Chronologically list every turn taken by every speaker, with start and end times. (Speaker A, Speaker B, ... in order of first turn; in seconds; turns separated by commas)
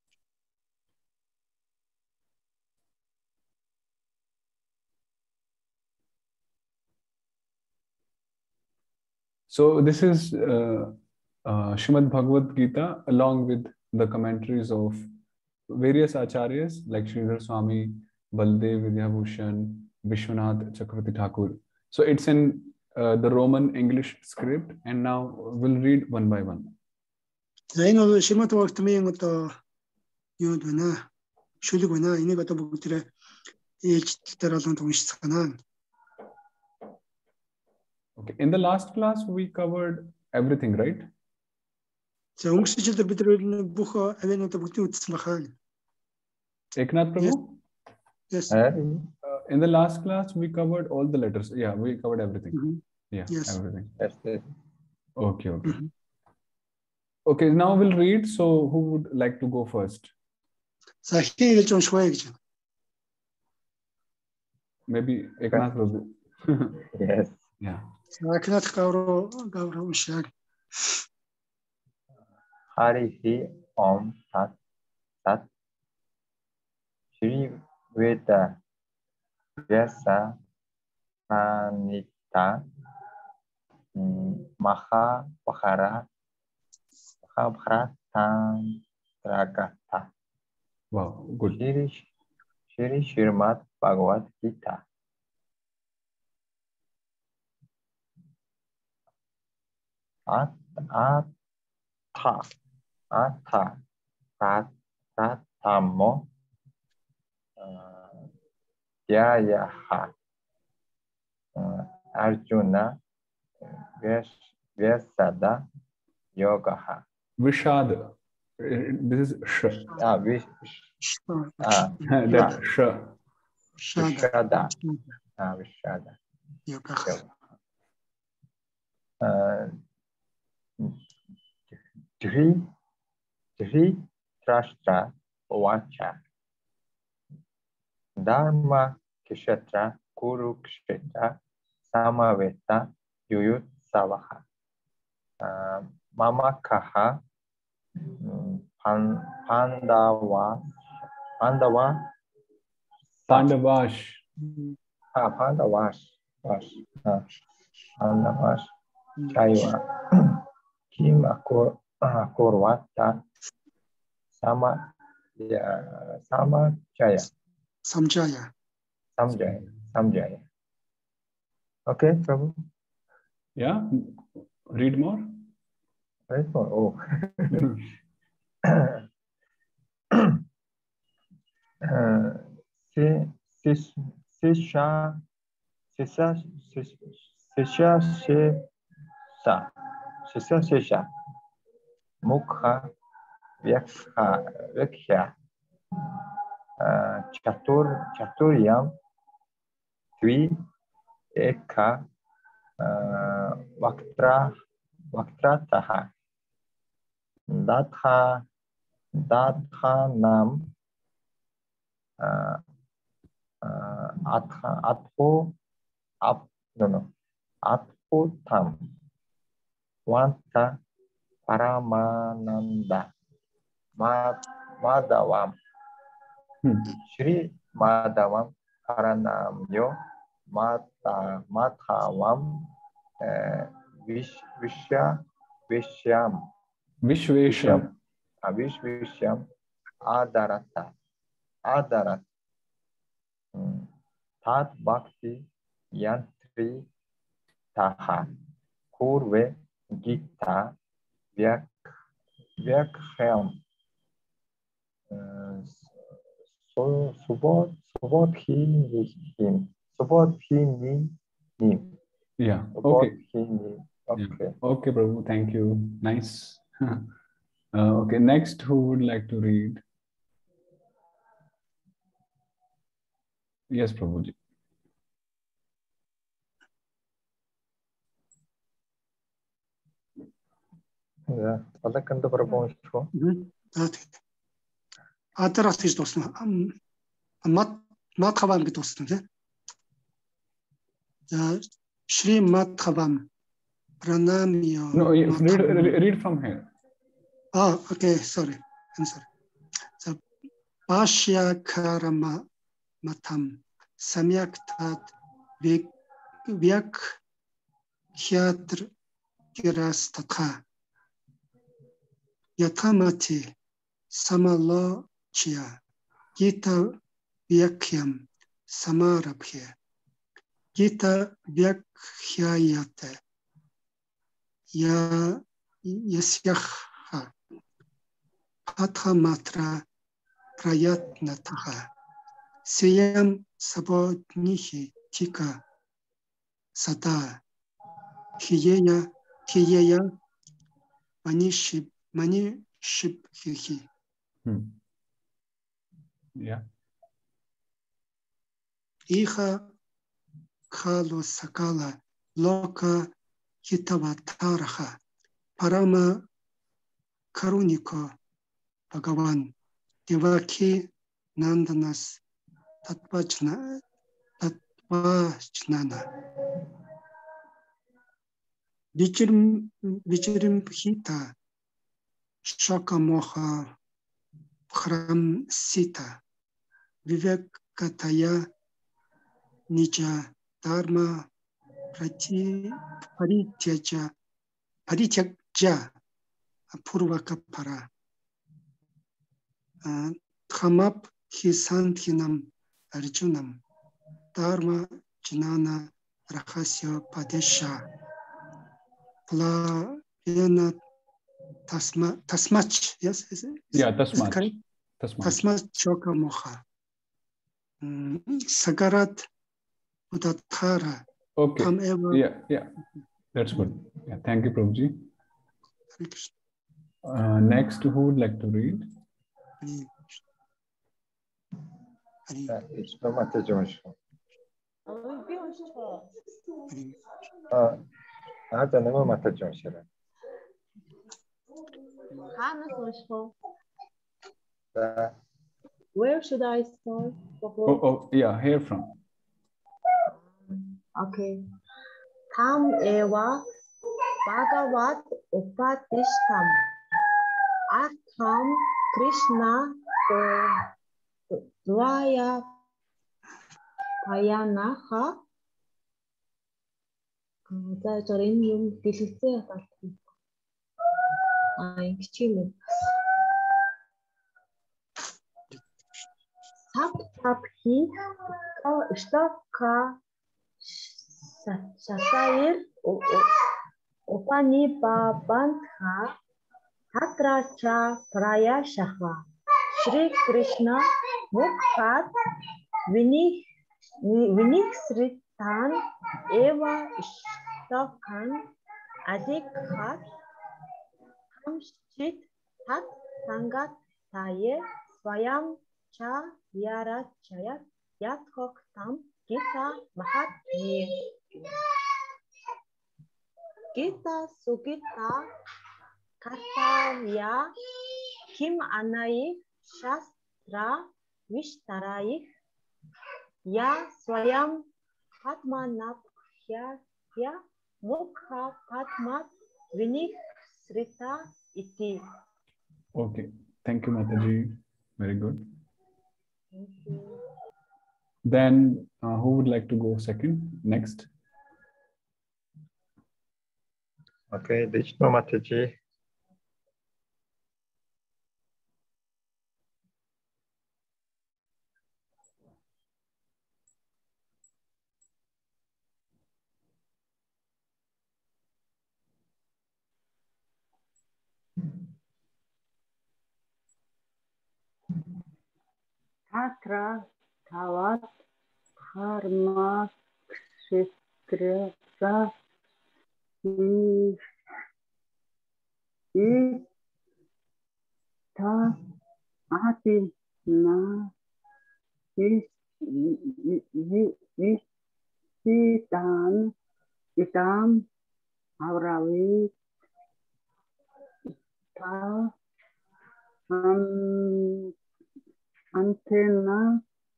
Speaker A: 9.5-15.1, Speaker A: 15.7-26.7, Speaker B: 27.7-29.6, Speaker B: 30.4-31.0, Speaker B: 31.6-33.1, Speaker B: 33.8-35.6, Speaker A: 38.2-41.1, Speaker B: 42.4-45.5, Speaker A: 46.8-47.6, Speaker C: 48.5-49.1, Speaker A: 49.2-52.6, Speaker B: 52.5-53.5, Speaker A: 53.1-53.9, Speaker C: 54.0-54.5, Speaker A: 55.2-55.8, Speaker B: 55.6-55.9, Speaker A: 57.2-60.1, Speaker B: 61.0-62.4, Speaker A: 64.9-66.8, Speaker C: 66.9-67.4, Speaker B: 68.2-71.0, Speaker C: 72.8-74.5, Speaker C: 77.1-78.6, Speaker C: 79.7-80.3, Speaker C: 81.3-82.6, Speaker C: 84.0-86.0, Speaker C: 87.3-90.1, Speaker A: 90.9-91.6, Speaker C: 91.4-92.1, Speaker C: 92.7-94.8, Speaker C: 100.3-101.3, Speaker C: 102.1-102.5, Speaker C: 103.1-103.8, Speaker C: 104.4-106.3, Speaker C: 107.6-108.3, Speaker C: 109.1-110.1, Speaker C: 111.5-113.0, Speaker C: 113.6-115.6, Speaker C: 116.3-117.0, Speaker A: 117.4-120.0, Speaker C: 119.9-120.9, Speaker B: 121.0-122.6, Speaker C: 121.6-122.6, Speaker A: 122.0-123.1, Speaker B: 123.8-125.0, Speaker C: 124.0-124.7, Speaker C: 125.4-126.2, Speaker B: 126.7-127.2, Speaker C: 129.2-129.8, Speaker C: 132.2-132.7, Speaker C: 133.6-136.2, Speaker C: 138.2-144.4, Speaker C: 145.4-147.2, Speaker C: 148.2-150.7, Speaker C: 151.4-152.1, Speaker C: 153.2-153.5, Speaker A: 153.3-154.2, Speaker C: 155.2-157.2, Speaker C: 158.0-158.7, Speaker B: 159.2-159.6, Speaker C: 159.3-163.2, Speaker C: 164.3-167.3, Speaker B: 167.8-168.5, Speaker C: 169.2-170.4, Speaker C: 171.9-172.6, Speaker A: 173.6-175.4, Speaker C: 176.3-177.7, Speaker A: 177.6-177.8, Speaker C: 178.7-179.0, Speaker C: 180.1-180.4, Speaker C: 181.8-185.2, Speaker C: 185.9-188.6, Speaker C: 189.4-189.7, Speaker C: 190.3-191.1, Speaker C: 192.2-192.9, Speaker C: 193.6-195.3, Speaker C: 196.8-198.9, Speaker C: 200.2-200.5, Speaker C: 201.3-202.0, Speaker C: 202.8-204.5, Speaker C: 205.1-206.1, Speaker C: 207.5-208.4, Speaker C: 209.2-210.7, Speaker C: 212.2-212.6, Speaker C: 213.6-215.5, Speaker C: 216.2-217.1, Speaker C: 217.6-218.8, Speaker C: 220.1-220.8, Speaker C: 221.5-223.1, Speaker C: 224.0-225.5, Speaker A: 226.6-226.9, Speaker C: 227.1-229.9, Speaker C: 230.5-232.7, Speaker C: 233.2-236.5, Speaker A: 237.0-237.9, Speaker C: 237.5-237.9, Speaker C: 238.4-239.4, Speaker C: 240.1-240.9, Speaker C: 241.7-242.2, Speaker C: 243.5-243.9, Speaker C: 244.4-246.9, Speaker C: 247.8-248.3, Speaker C: 248.9-250.7, Speaker C: 251.3-251.8, Speaker C: 252.6-253.6, Speaker C: 255.1-255.9, Speaker C: 256.7-262.0, Speaker A: 262.4-263.1, Speaker C: 262.8-264.6, Speaker A: 264.2-267.1, Speaker A: 267.7-269.8, Speaker A: 273.7-274.3, Speaker C: 281.3-283.1, Speaker B: 283.1-284.2, Speaker B: 285.4-286.7, Speaker B: 287.4-289.2, Speaker B: 291.3-293.2, Speaker B: 294.0-296.0, Speaker A: 294.9-296.7, Speaker B: 297.6-299.2, Speaker B: 300.9-302.4, Speaker B: 303.0-305.9, Speaker B: 306.5-307.2, Speaker B: 308.2-308.9, Speaker B: 309.6-310.6, Speaker B: 312.6-313.5, Speaker B: 314.1-315.8, Speaker B: 316.4-317.0, Speaker B: 317.5-319.7, Speaker B: 320.8-323.2, Speaker B: 324.7-327.3, Speaker B: 328.7-329.8, Speaker B: 330.6-331.9, Speaker B: 332.7-335.6, Speaker B: 336.8-337.4, Speaker B: 338.4-340.1, Speaker B: 341.2-343.9, Speaker A: 344.4-344.8, Speaker A: 346.4-346.6, Speaker B: 349.1-349.7, Speaker B: 350.7-353.1, Speaker B: 353.6-355.0, Speaker B: 355.6-356.2, Speaker B: 357.3-358.1, Speaker B: 358.9-359.5, Speaker B: 360.1-362.2, Speaker B: 362.9-363.8, Speaker B: 364.4-366.1, Speaker B: 368.9-371.3, Speaker B: 372.4-373.7, Speaker B: 374.7-376.2, Speaker B: 377.1-378.5, Speaker B: 379.7-381.3, Speaker B: 381.9-384.1, Speaker B: 384.9-385.9, Speaker B: 386.7-387.9, Speaker B: 389.8-393.6, Speaker B: 394.4-397.8, Speaker B: 399.3-400.8, Speaker B: 401.7-404.6, Speaker A: 403.7-405.4, Speaker B: 405.2-406.6, Speaker B: 407.8-409.3, Speaker B: 410.1-411.0, Speaker A: 411.4-412.7, Speaker B: 411.6-412.2, Speaker A: 413.3-415.1, Speaker B: 415.9-416.3, Speaker A: 417.0-418.9, Speaker B: 419.6-419.9, Speaker B: 422.3-422.5, Speaker C: 422.5-423.9, Speaker D: 424.9-426.2, Speaker B: 426.7-426.9, Speaker C: 427.5-427.8, Speaker C: 428.5-429.9, Speaker D: 432.2-433.4, Speaker C: 434.7-435.1, Speaker D: 435.9-437.8, Speaker A: 437.6-439.0, Speaker D: 440.5-441.4, Speaker D: 442.3-443.4, Speaker D: 444.2-446.7, Speaker D: 447.7-450.7, Speaker D: 451.3-452.6, Speaker D: 454.0-455.2, Speaker D: 457.5-460.1, Speaker D: 461.6-462.9, Speaker D: 466.7-470.0, Speaker D: 470.6-473.5, Speaker D: 474.1-476.1, Speaker D: 476.9-482.1, Speaker D: 482.9-483.4, Speaker D: 484.0-488.5, Speaker D: 489.1-490.1, Speaker D: 491.4-501.7, Speaker D: 503.7-505.3, Speaker D: 506.2-507.5, Speaker D: 508.3-512.3, Speaker D: 513.5-514.7, Speaker D: 515.2-522.0, Speaker A: 522.9-525.5, Speaker D: 526.5-527.2, Speaker A: 528.2-531.1, Speaker C: 534.3-535.8, Speaker E: 556.3-558.1, Speaker E: 558.9-562.3, Speaker E: 563.4-564.2, Speaker E: 566.1-566.6, Speaker E: 568.4-568.8, Speaker E: 569.5-571.1, Speaker E: 572.2-574.6, Speaker E: 575.4-576.5, Speaker E: 577.2-577.9, Speaker E: 578.6-579.5, Speaker E: 581.8-582.3, Speaker E: 583.5-584.7, Speaker E: 585.7-586.8